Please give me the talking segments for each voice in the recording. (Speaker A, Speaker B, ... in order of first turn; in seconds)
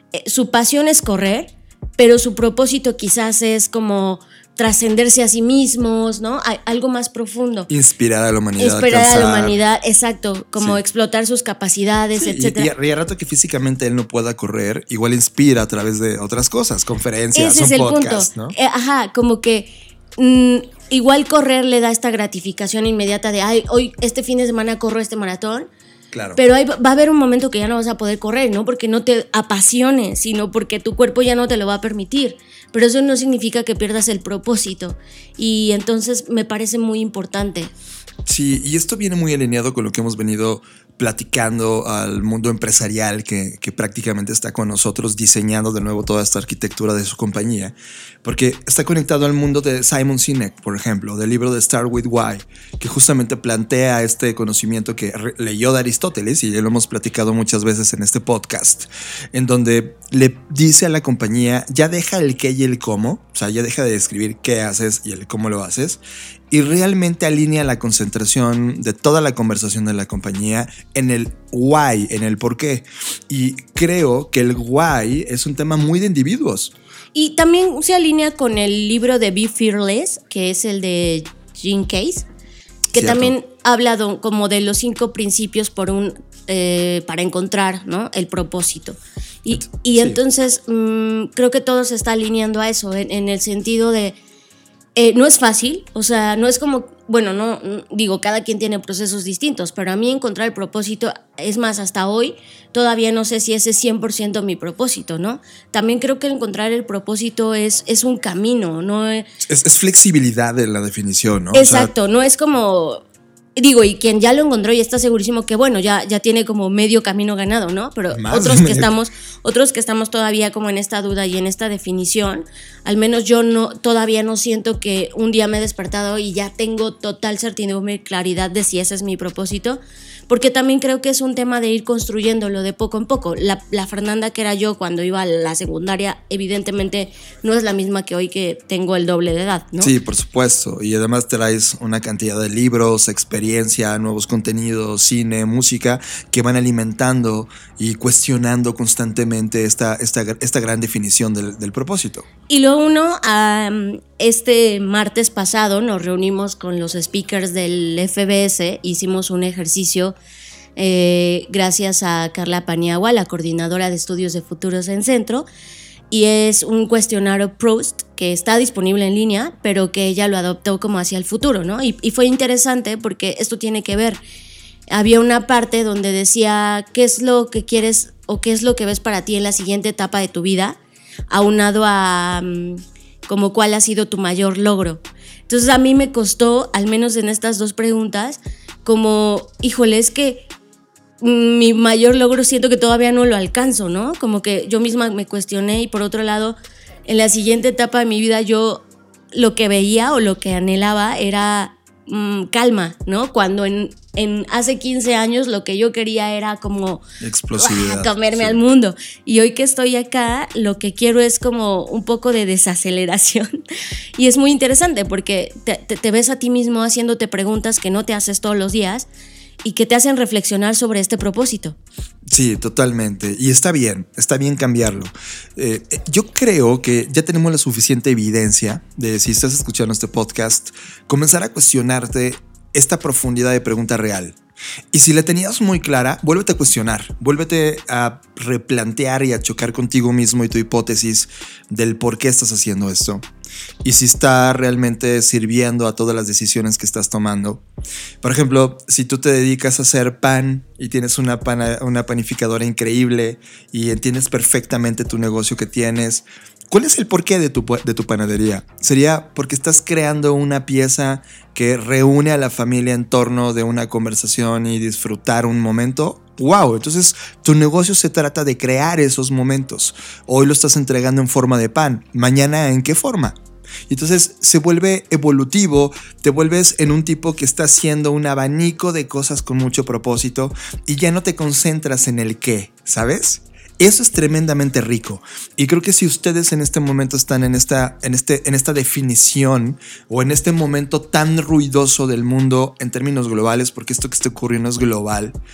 Speaker A: 0.1-7.7, 8.6-12.7, 17.3-25.7, 26.4-37.7, 77.1-82.3, 82.9-94.2, 95.0-109.3, 111.5-113.0, 113.6-139.9, 152.5-160.2, 160.8-165.5, 166.1-174.2, 174.9-180.8, 181.3-190.4, 191.2-207.0, 207.6-213.5, 214.2-219.1, 219.6-221.8
Speaker B: 7.7-9.6, 12.2-18.6, 26.1-26.4, 38.3-76.7, 82.9-83.3, 89.5-90.2, 109.4-111.9, 118.1-118.9, 139.8-152.3, 207.2-208.6, 222.3-234.4, 234.9-243.2, 243.8-247.6, 248.2-273.4, 273.9-295.4